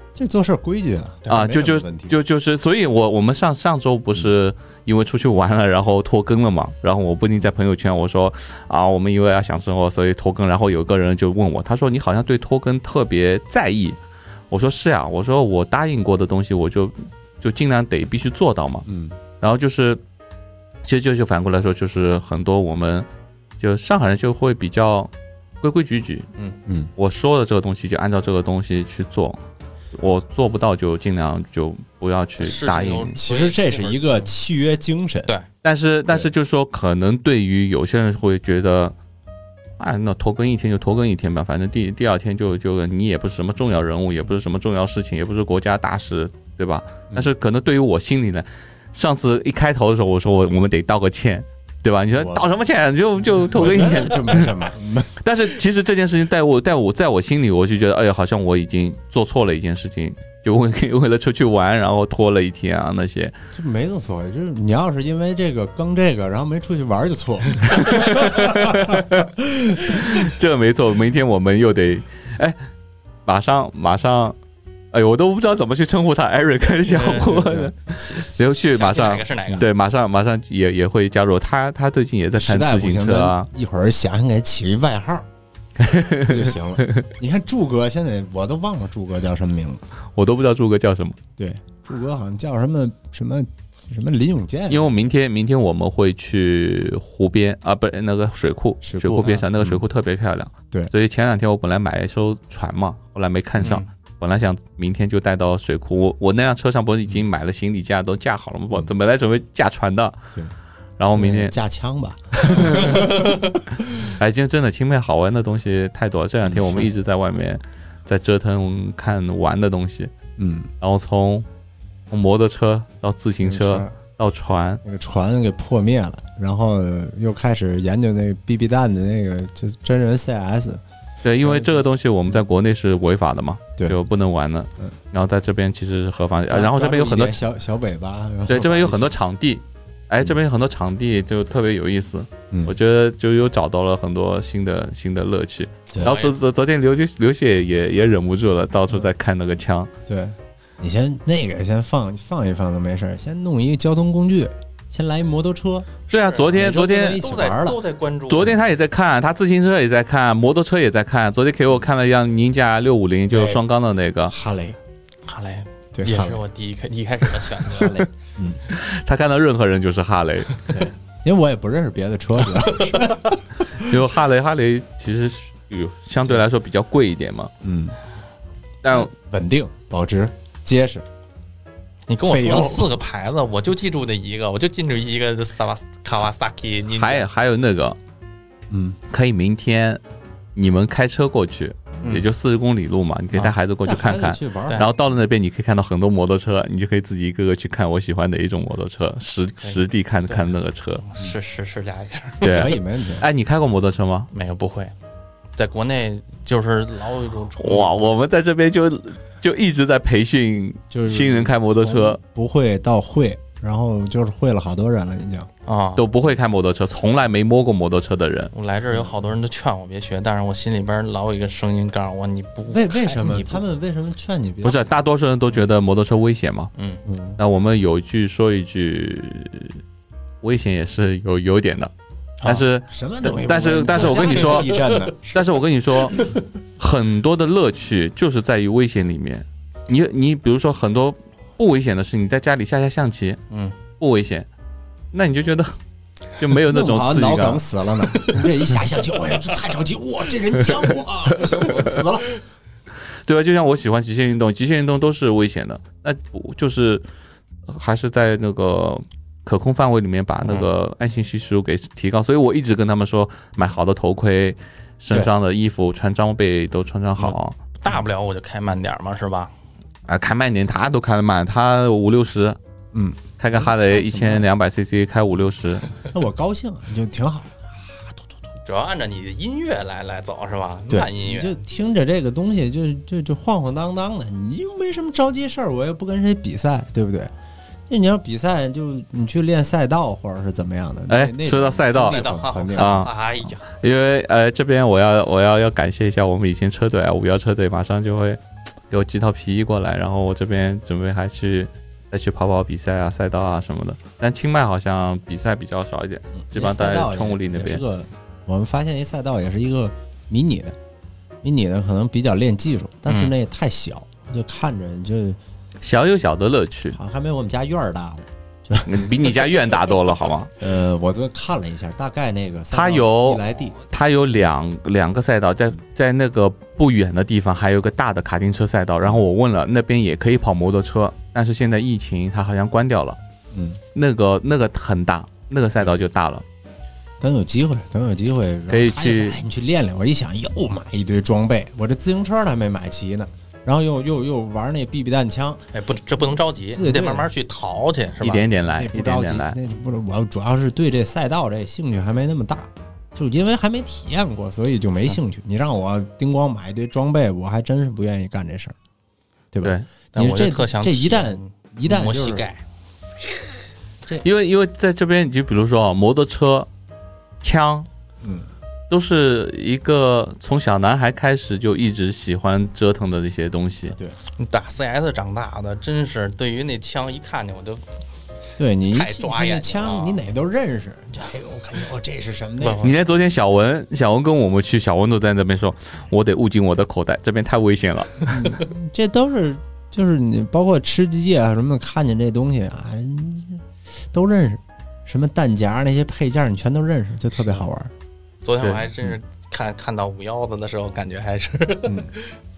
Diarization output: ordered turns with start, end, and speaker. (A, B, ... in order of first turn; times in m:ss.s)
0:00.1-0:02.1 A
0:01.3-0:14.0 B
0:14.5-0:18.8 B
0:18.8-0:19.2 A
0:19.4-0:20.0 B
0:20.8-0:23.1 B
0:23.6-0:25.1 B
0:25.6-0:26.3 B
0:26.6-0:26.9 A
0:27.0-0:29.4 B
0:29.9-0:33.2 B
0:32.4-0:34.3 C
0:33.2-0:35.3 A
0:35.6-0:38.9 B
0:39.8-0:54.6 B
0:52.1-0:52.5 A
0:53.5-0:55.2 A
0:55.2-1:03.4 B
1:03.5-1:10.2 A
1:07.7-1:12.6 B
1:13.2-1:14.4 B
1:14.9-1:23.5 B
1:16.9-1:19.6 C
1:22.4-1:25.3 A
1:25.8-1:27.1 B
1:26.2-1:29.8 A
1:30.1-1:31.2 B
1:31.4-1:34.9 A
1:34.7-1:50.2 B
1:38.8-1:39.8 A
1:43.6-1:43.9 C
1:51.0-1:51.5 B
1:51.1-1:54.1 A
1:52.4-1:53.1 B
1:54.1-2:00.1 B
1:56.4-1:56.9 A
2:00.4-2:00.7 A
2:00.8-2:01.4 B
2:02.1-2:04.8 B
2:03.4-2:03.9 A
2:04.8-2:10.8 A
2:11.2-2:17.4 B
2:11.4-2:12.4 A
2:16.5-2:19.2 A
2:18.5-2:29.9 B
2:22.5-2:22.8 A
2:26.0-2:26.3 C
2:30.1-2:35.9 A
2:36.1-2:38.6 C
2:36.1-2:37.2 B
2:36.5-2:37.8 A
2:38.3-2:44.3 B
2:44.3-2:44.8 A
2:45.2-2:48.0 C
2:45.9-2:46.4 A
2:47.7-2:48.6 A
2:48.7-2:50.7 B
2:50.7-2:54.0 A
2:52.7-2:53.1 C
2:53.8-2:57.5 B
2:57.6-2:58.0 A
2:58.8-2:59.1 B
2:58.9-3:01.0 A
3:02.1-3:07.2 C
3:02.2-3:02.9 A
3:06.9-3:08.0 B
3:08.7-3:09.0 A
3:09.1-3:10.0 B
3:10.5-3:21.0 B
3:12.0-3:12.3 C
3:13.8-3:14.9 A
3:19.6-3:22.7 C
3:22.4-3:24.3 B
3:22.4-3:23.3 A
3:24.3-3:24.9 C
3:25.6-3:28.1 C
3:27.6-3:32.2 B
3:30.9-3:35.5 A
3:35.6-3:36.1 C
3:36.0-3:38.5 B
3:38.5-3:43.6 C
3:42.7-3:44.9 A
3:44.6-3:46.7 B
3:46.8-3:47.0 C
3:47.0-3:47.4 A
3:47.4-3:49.8 B
3:50.4-3:51.9 B
3:52.4-3:54.7 B
3:52.9-3:55.2 A
3:53.9-3:55.4 C
3:55.3-3:56.2 B
3:56.0-3:56.4 C
3:56.8-4:03.4 B
4:03.5-4:03.8 C
4:04.0-4:04.5 B
4:05.1-4:05.7 B
4:06.4-4:07.6 B
4:06.7-4:12.4 A
4:13.2-4:17.0 B
4:17.7-4:27.6 B
4:27.2-4:29.5 C
4:30.1-4:32.6 B
4:32.9-4:34.5 A
4:33.4-4:35.9 B
4:36.0-4:38.2 A
4:38.6-4:41.6 C
4:40.9-4:47.3 A
4:47.9-4:53.0 A
4:51.1-5:07.8 B
4:51.9-4:53.6 C
5:06.4-5:10.8 A
5:11.4-5:15.4 A
5:13.1-5:13.3 C
5:15.8-5:17.0 B
5:16.9-5:19.1 A
5:18.8-5:20.5 B
5:20.6-5:23.8 A
5:22.7-5:33.2 B
5:33.5-5:33.8 A
5:33.9-5:36.4 B
5:37.2-5:45.6 A
5:38.7-5:39.4 B
5:45.7-5:48.4 C
5:46.7-5:47.3 A
5:48.2-5:49.6 B
5:48.7-5:58.8 A
5:59.5-6:02.4 A
5:59.6-5:59.9 B
6:00.1-6:02.6 C
6:04.2-6:06.7 B
6:07.4-6:07.9 B
6:08.2-6:08.5 A
6:08.9-6:13.9 B
6:13.9-6:14.2 A
6:14.4-6:17.8 C
6:18.6-6:22.8 A
6:18.8-6:20.2 C
6:22.6-6:23.0 C
6:22.8-6:28.3 B
6:28.3-6:37.9 A
6:38.4-6:42.4 C